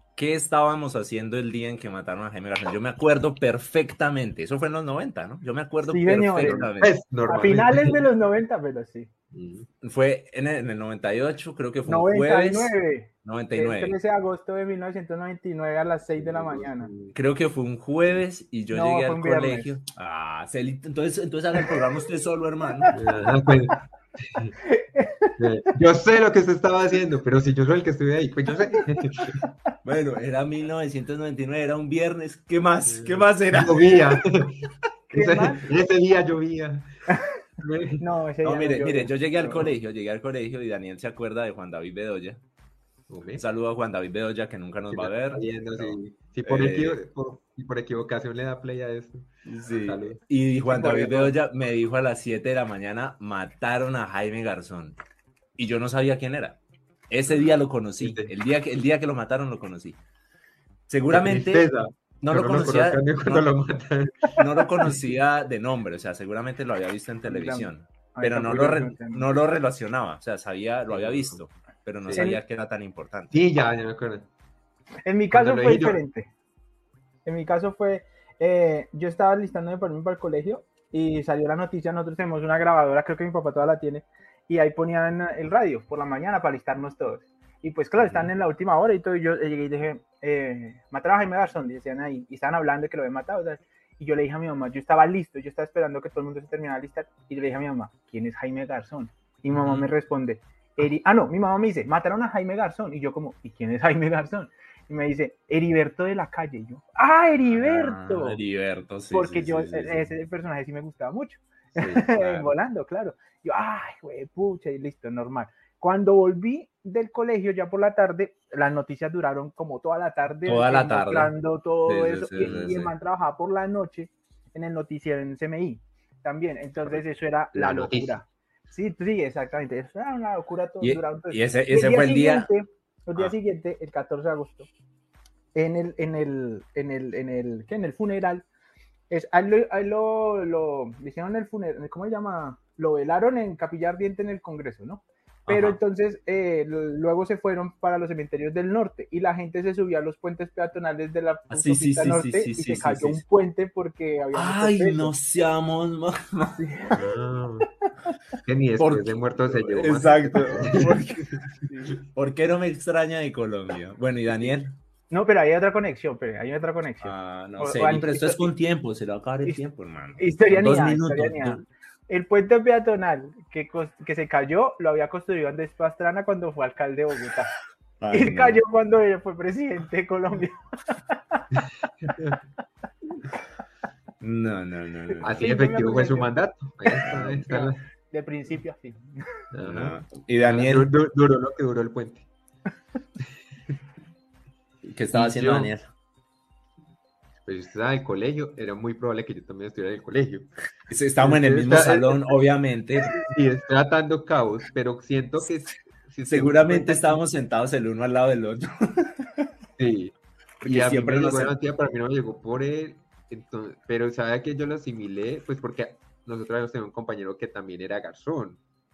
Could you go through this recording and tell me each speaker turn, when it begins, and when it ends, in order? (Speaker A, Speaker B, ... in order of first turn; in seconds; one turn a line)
Speaker A: 0.2-7.0
Speaker B: 5.8-6.7
Speaker C: 6.4-8.1
Speaker B: 7.3-9.1
Speaker C: 9.3-9.7
Speaker A: 9.8-14.0
Speaker B: 11.8-16.9
Speaker C: 16.2-17.1
Speaker A: 17.1-23.0
Speaker B: 18.7-19.7
Speaker B: 22.7-22.9
Speaker C: 22.9-24.5
Speaker B: 24.6-25.4
Speaker C: 25.4-29.5
Speaker A: 29.8-34.0
Speaker C: 32.9-36.9
Speaker B: 35.1-35.7
Speaker B: 37.1-37.4
Speaker C: 37.6-38.0
Speaker B: 38.0-39.7
Speaker A: 38.4-42.4
Speaker C: 43.1-43.4
Speaker A: 43.4-47.0
Speaker C: 44.9-49.3
Speaker A: 49.5-55.0
Speaker C: 49.8-50.2
Speaker B: 50.7-51.4
Speaker A: 55.6-60.0
Speaker C: 57.3-58.3
Speaker A: 60.9-61.7
Speaker C: 61.1-65.0
Speaker A: 62.2-63.5
Speaker A: 64.3-73.4
Speaker B: 67.2-69.4
Speaker C: 70.9-71.4
Speaker C: 72.0-72.3
Speaker B: 72.1-72.4
Speaker C: 73.3-74.3
Speaker B: 75.0-76.3
Speaker C: 75.3-76.0
Speaker B: 77.2-108.4
Speaker A: 99.5-99.9
Speaker A: 107.5-110.1
Speaker B: 109.1-134.7
Speaker C: 111.8-112.2
Speaker A: 112.2-112.4
Speaker A: 120.5-121.3
Speaker A: 121.8-122.9
Speaker C: 122.4-122.8
Speaker C: 127.5-128.2
Speaker A: 130.8-132.5
Speaker B: 135.6-138.5
Speaker B: 139.1-155.1
Speaker A: 145.5-145.8
Speaker A: 151.5-153.2
Speaker A: 154.3-156.6
Speaker B: 156.5-157.1
Speaker C: 156.9-157.7
Speaker B: 157.9-158.2
Speaker C: 158.4-161.5
Speaker A: 158.8-161.3
Speaker B: 161.6-162.0
Speaker A: 162.1-164.7
Speaker B: 165.1-168.5
Speaker A: 167.0-171.6
Speaker B: 170.2-177.5
Speaker A: 178.0-178.6
Speaker B: 178.1-181.4
Speaker C: 181.6-182.4
Speaker A: 184.2-185.4
Speaker C: 185.2-187.8
Speaker B: 185.4-186.3
Speaker B: 186.9-189.1
Speaker A: 187.1-187.4
Speaker C: 189.5-192.3
Speaker A: 189.6-190.9
Speaker A: 194.8-195.9
Speaker C: 195.1-195.7
Speaker C: 197.4-200.5
Speaker A: 200.9-203.2
Speaker C: 201.2-202.4
Speaker C: 203.0-207.2
Speaker A: 206.3-209.5
Speaker C: 209.8-218.6
Speaker A: 210.6-211.6